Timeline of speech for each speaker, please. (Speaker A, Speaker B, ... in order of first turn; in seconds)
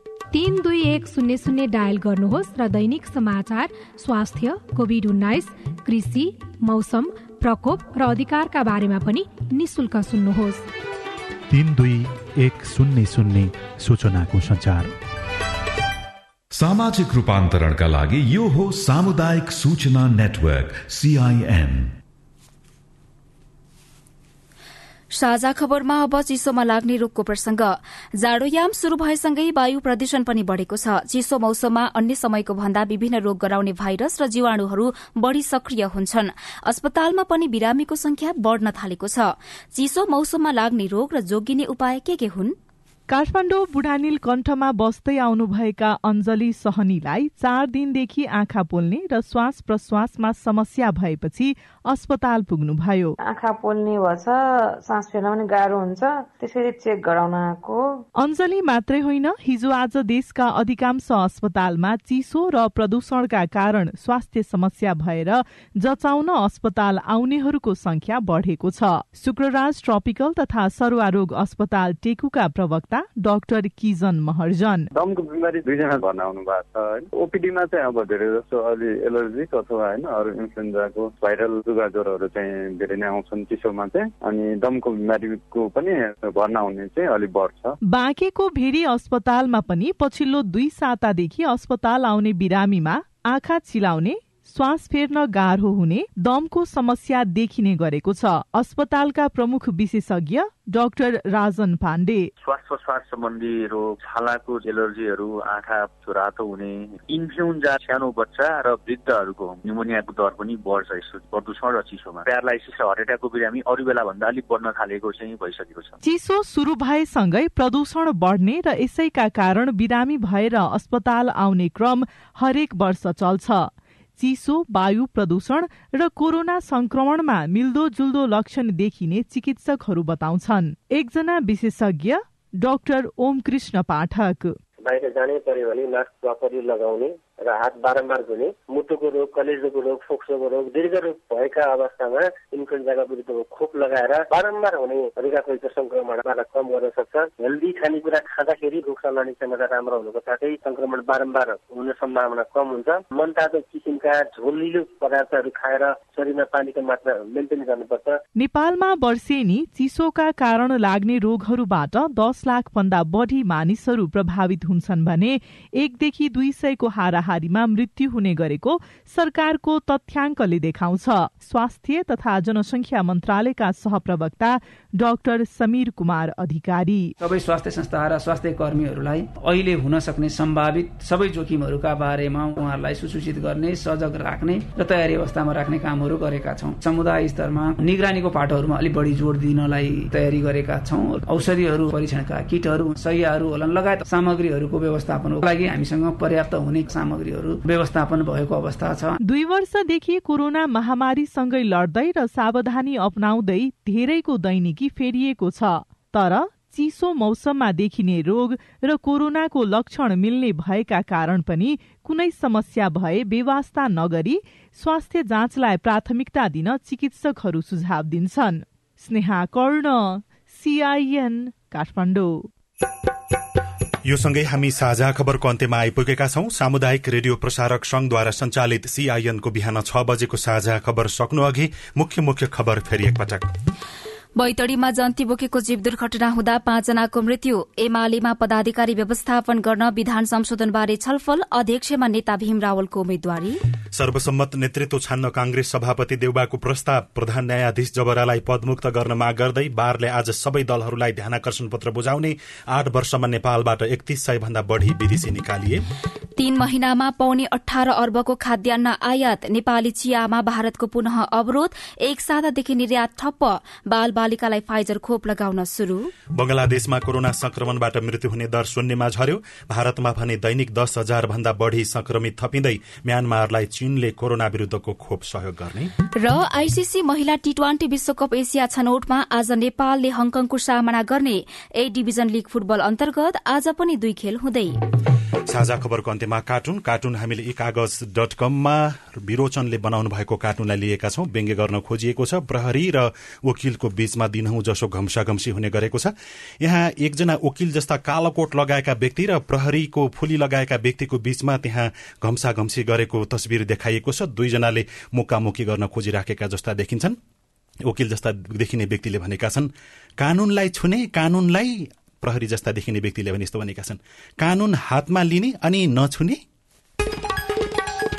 Speaker A: 0.3-10.7
Speaker B: 11.5-14.9
Speaker C: 16.5-21.9
Speaker D: 25.1-42.5, 234.4-243.6, 256.4-266.1, 276.2-284.8
Speaker E: 43.1-53.1, 58.2-74.9, 87.8-102.3, 116.0-134.6, 158.4-177.1, 199.2-222.5
Speaker F: 53.2-58.0
Speaker G: 74.9-87.8
Speaker H: 102.5-115.9
Speaker I: 134.8-158.2
Speaker J: 177.2-199.2
Speaker K: 224.0-233.5, 243.9-255.8, 266.3-275.9, 285.5-307.2, 307.8-316.4